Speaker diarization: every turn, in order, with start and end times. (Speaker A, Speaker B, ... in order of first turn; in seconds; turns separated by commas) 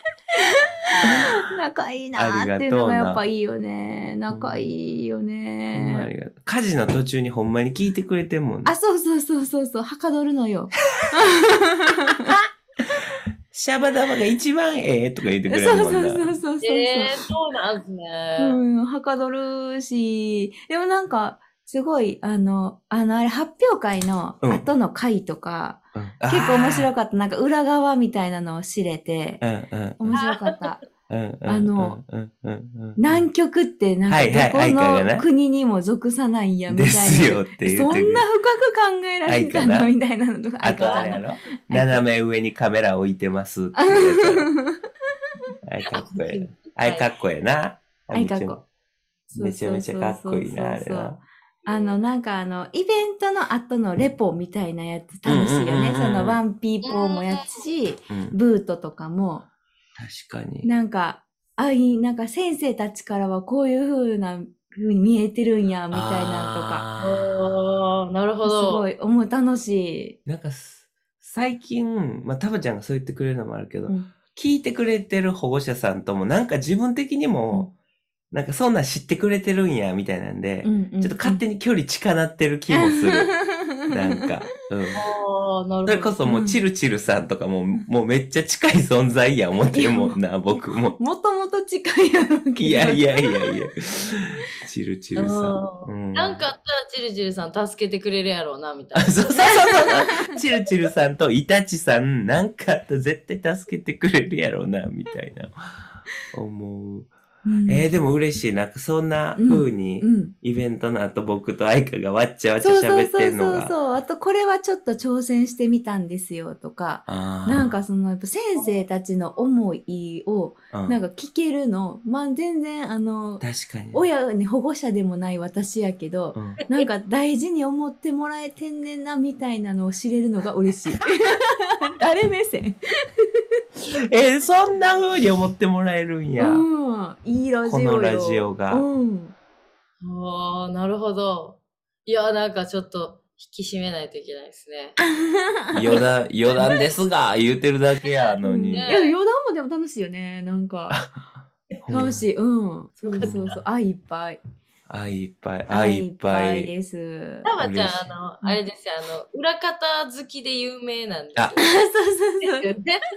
Speaker A: 0.3-6.1, Speaker B: 1.0-1.4, Speaker B: 2.1-3.2, Speaker B: 4.3-4.7, Speaker B: 5.7-8.7, Speaker A: 8.7-12.4, Speaker B: 12.1-16.3, Speaker A: 15.5-17.2, Speaker C: 16.6-18.6, Speaker A: 18.4-29.4, Speaker B: 25.9-26.9, Speaker B: 29.4-30.2, Speaker A: 30.0-30.8, Speaker C: 30.1-30.7, Speaker B: 31.1-33.2, Speaker A: 31.4-32.0, Speaker A: 33.0-42.0, Speaker B: 34.1-35.3, Speaker B: 36.7-38.2, Speaker B: 39.2-39.9, Speaker B: 40.6-44.5, Speaker C: 40.8-41.1, Speaker A: 43.8-44.8, Speaker B: 45.6-48.6, Speaker C: 45.9-47.1, Speaker A: 48.1-48.6, Speaker A: 49.3-59.5, Speaker B: 49.3-51.2, Speaker C: 51.6-52.0, Speaker B: 55.2-56.4, Speaker C: 56.8-57.7, Speaker B: 58.1-58.4, Speaker B: 60.0-60.7, Speaker A: 60.6-66.8, Speaker B: 65.9-67.6, Speaker C: 67.0-68.8, Speaker A: 68.4-70.2, Speaker B: 70.2-77.7, Speaker B: 78.3-85.0, Speaker A: 80.6-81.4, Speaker A: 82.7-84.3, Speaker C: 84.9-86.2, Speaker B: 85.8-91.0, Speaker A: 86.2-86.6, Speaker A: 89.7-94.2, Speaker B: 92.6-96.4, Speaker C: 95.2-99.3, Speaker B: 99.0-107.1, Speaker A: 99.4-100.4, Speaker A: 107.4-107.9, Speaker B: 107.7-113.7, Speaker A: 109.4-110.3, Speaker A: 112.6-133.4, Speaker B: 117.1-117.8, Speaker B: 120.7-121.0, Speaker B: 123.4-124.0, Speaker B: 126.3-126.6, Speaker B: 133.9-136.7, Speaker A: 136.4-139.3, Speaker B: 137.6-138.8, Speaker C: 140.0-145.0, Speaker A: 145.0-146.1, Speaker B: 145.7-149.0, Speaker A: 148.4-151.0, Speaker C: 148.7-149.2, Speaker B: 151.8-152.2, Speaker A: 151.9-154.4, Speaker C: 153.0-153.3, Speaker B: 153.2-153.6, Speaker B: 154.9-156.7, Speaker A: 155.7-157.5, Speaker C: 157.4-161.8, Speaker B: 157.6-158.1, Speaker A: 161.6-162.7, Speaker C: 162.4-163.0